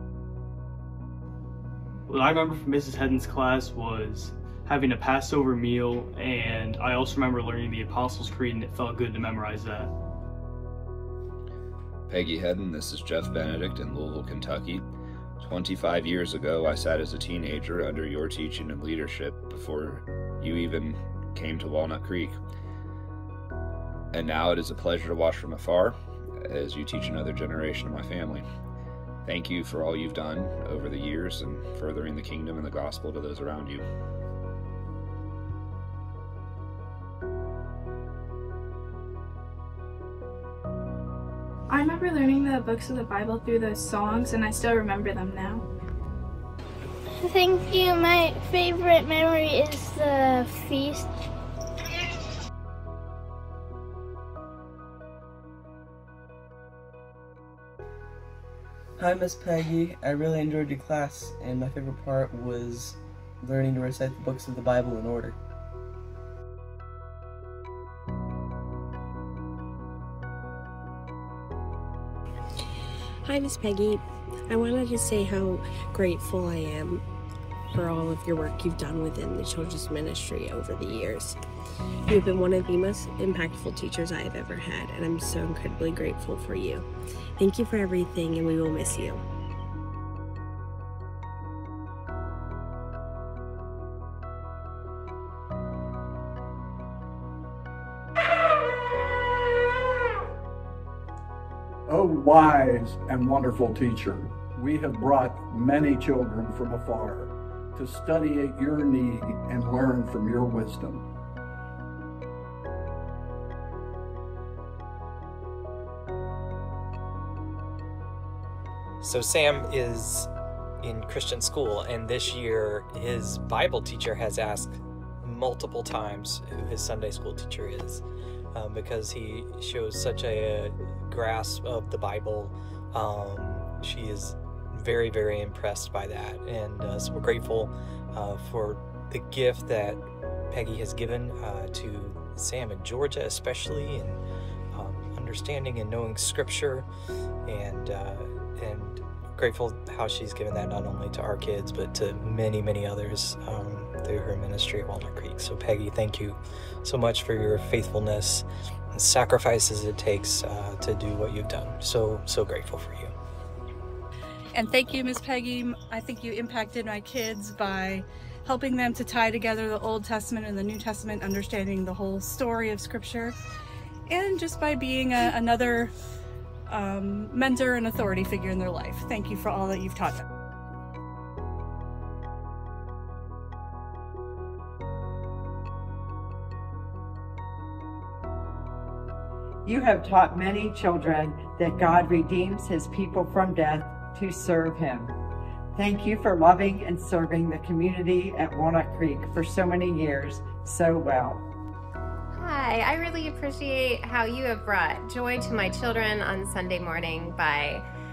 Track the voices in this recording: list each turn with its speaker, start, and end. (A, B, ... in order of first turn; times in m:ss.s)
0:02.1-0:09.9 A
0:12.1-0:14.8 B
0:15.4-0:22.4 B
0:24.1-0:28.5 B
0:29.2-0:33.8 B
0:41.7-0:45.6 C
0:47.2-0:51.1 D
0:59.0-1:05.4 E
1:13.2-1:17.0 F
1:17.7-1:21.4 F
1:22.1-1:26.9 F
1:27.4-1:29.2 F
1:41.9-1:51.0 G
1:59.0-2:00.3 H
2:00.8-2:24.2 H
2:24.7-2:26.9 H
2:27.5-2:43.1 H
2:44.5-2:53.4 I
2:54.1-2:55.9 I
2:56.7-3:00.2 I
3:09.6-3:15.2 J
3:15.8-3:21.5 J
3:22.4-3:27.9 K